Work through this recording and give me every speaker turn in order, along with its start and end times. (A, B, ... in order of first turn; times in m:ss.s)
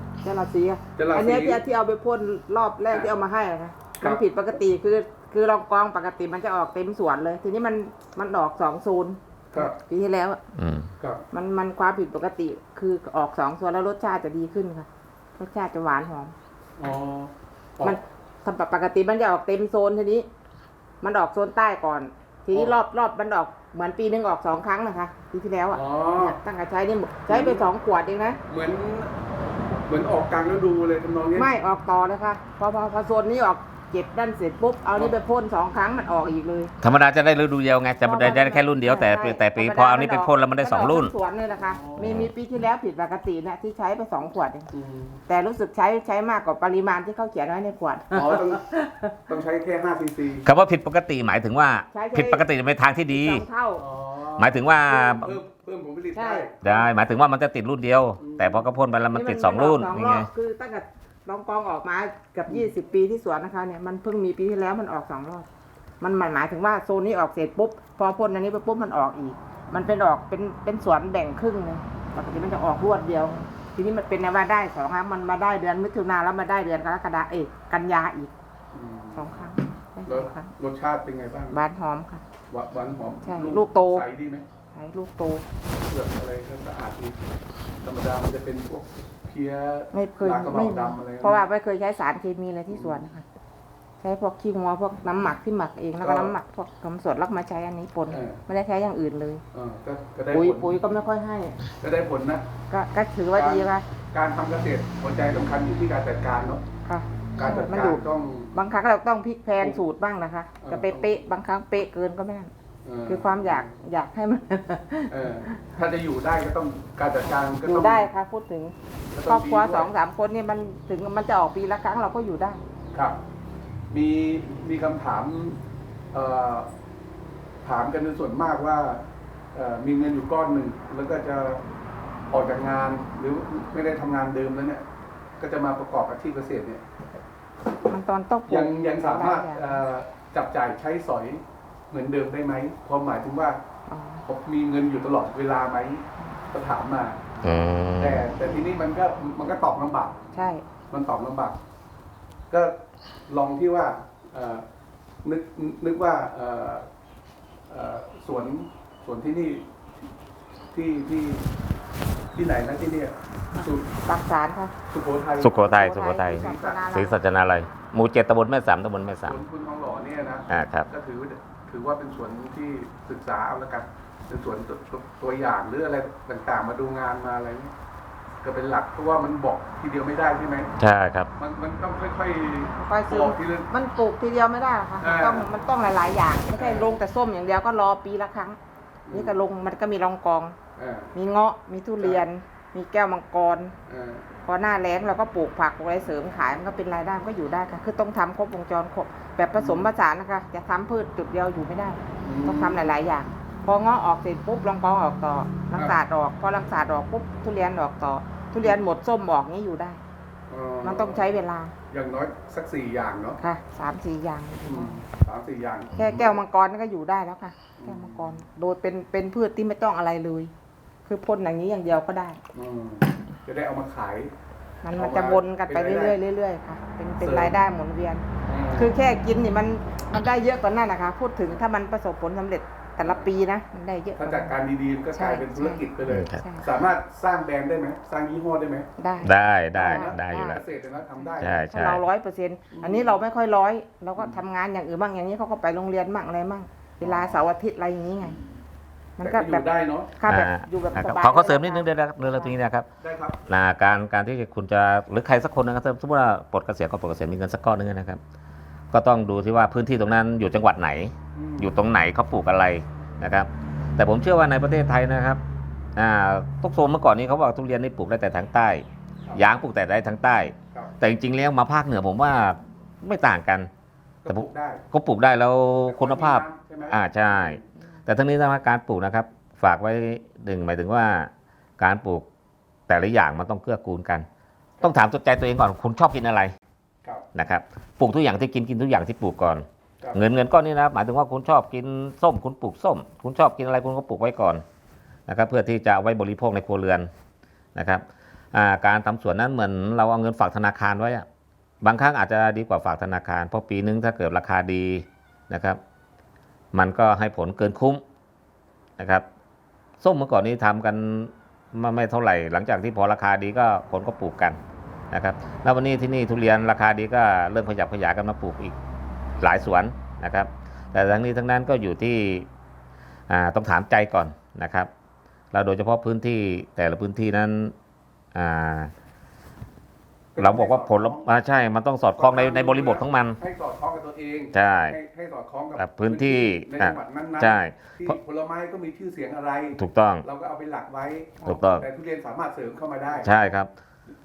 0:00.2-0:10.4 A
0:01.0-0:01.6 B
0:10.5-0:10.9 C
0:11.3-0:16.3 A
0:16.8-0:18.0 B
0:17.8-0:20.3 A
0:21.0-0:28.4 A
0:25.7-0:26.4 B
0:27.3-0:27.6 B
0:28.5-0:29.1 B
0:29.8-0:31.5 B
0:31.4-0:36.7 A
0:36.8-0:41.1 C
0:38.0-0:44.7 A
0:41.6-0:42.3 B
0:42.0-0:42.3 C
0:44.7-0:45.2 B
0:45.3-0:49.2 A
0:48.1-0:48.7 B
0:49.3-0:50.5 B
0:50.4-0:53.4 C
0:51.9-0:52.4 A
0:53.1-0:53.8 A
0:53.8-0:56.7 B
0:54.4-0:55.4 C
0:56.1-0:56.5 A
0:56.6-1:00.3 C
0:58.2-0:58.7 B
0:59.1-1:05.4 A
1:06.0-1:18.3 A
1:18.7-1:19.4 B
1:19.1-1:20.5 A
1:20.1-1:21.6 B
1:21.5-1:22.2 A
1:22.5-1:24.4 B
1:23.2-1:24.0 A
1:24.7-1:25.4 A
1:25.9-1:27.2 B
1:27.8-1:31.4 B
1:29.9-1:33.2 A
1:32.7-1:33.0 B
1:34.0-1:39.4 A
1:36.0-1:36.3 B
1:38.1-1:38.4 B
1:39.5-1:40.8 B
1:40.3-1:41.6 A
1:41.8-1:42.5 B
1:42.7-1:43.8 A
1:43.4-1:46.6 B
1:46.8-1:52.5 A
1:47.4-1:48.6 B
1:50.6-1:51.2 B
1:52.8-1:53.7 B
1:53.1-1:55.6 A
1:55.1-1:58.1 B
1:57.6-1:58.7 A
1:59.1-1:59.9 B
1:59.3-2:02.6 A
2:02.9-2:03.2 B
2:03.9-2:05.6 B
2:06.1-2:06.7 B
2:07.6-2:11.6 B
2:12.3-2:14.8 B
2:15.4-2:16.8 B
2:17.8-2:19.8 A
2:18.5-2:23.6 B
2:23.9-2:24.2 A
2:24.2-2:27.4 B
2:27.4-2:28.2 C
2:28.0-2:31.6 B
2:30.3-2:30.6 A
2:32.5-2:34.6 B
2:35.2-2:36.9 B
2:37.7-2:39.7 B
2:40.7-2:41.5 B
2:42.3-2:43.9 B
2:43.5-2:44.7 A
2:44.9-2:45.6 B
2:45.4-2:49.4 C
2:45.6-2:47.2 A
2:46.2-2:46.8 B
2:49.2-2:57.7 B
2:50.5-2:50.9 C
2:58.4-3:00.7 B
3:00.8-3:01.3 C
3:01.4-3:03.7 B
3:02.8-3:08.6 A
3:05.0-3:05.5 B
3:06.5-3:07.0 B
3:09.1-3:09.4 B
3:09.1-3:10.6 A
3:10.8-3:11.1 B
3:11.1-3:13.7 A
3:12.0-3:12.2 B
3:13.9-3:14.3 B
3:14.4-3:30.0 A
3:19.5-3:19.9 B
3:22.2-3:22.9 B
3:30.5-3:31.3 B
3:30.8-3:31.7 A
3:31.9-3:33.4 B
3:33.4-3:35.0 A
3:34.6-3:36.4 B
3:35.9-3:40.5 A
3:37.8-3:38.4 B
3:41.0-3:42.4 A
3:42.5-3:44.3 B
3:44.8-3:54.5 A
3:44.9-3:46.2 B
3:47.2-3:47.6 B
3:48.4-3:48.9 B
3:54.2-3:58.9 B
3:55.1-3:55.8 A
3:56.1-3:56.4 C
3:56.4-3:56.7 A
3:59.0-4:00.6 A
3:59.2-4:00.6 C
3:59.8-4:01.6 B
4:01.2-4:08.4 A
4:01.4-4:02.0 C
4:02.7-4:03.2 B
4:07.0-4:07.4 B
4:08.2-4:08.6 B
4:09.2-4:09.6 A
4:09.2-4:10.1 B
4:10.2-4:12.6 A
4:10.2-4:12.9 C
4:13.0-4:13.4 B
4:13.4-4:18.2 C
4:18.9-4:25.4 C
4:21.3-4:21.8 B
4:26.0-4:33.7 C
4:34.2-4:34.8 B
4:34.3-4:42.3 C
4:35.8-4:37.6 B
4:42.9-4:44.3 C
4:44.8-4:46.5 C
4:47.3-4:54.6 C
4:55.3-4:57.1 C
4:57.7-5:01.2 C
5:01.8-5:05.8 C
5:06.7-5:08.0 C
5:09.0-5:09.2 C
5:10.0-5:14.6 C
5:15.1-5:18.8 C
5:19.4-5:22.5 C
5:23.3-5:24.9 C
5:25.5-5:27.7 C
5:28.3-5:28.9 C
5:30.3-5:31.2 B
5:30.4-5:33.4 C
5:32.2-5:43.3 B
5:34.5-5:35.0 C
5:35.8-5:38.2 C
5:39.8-5:40.2 C
5:41.4-5:41.9 C
5:43.2-5:43.7 C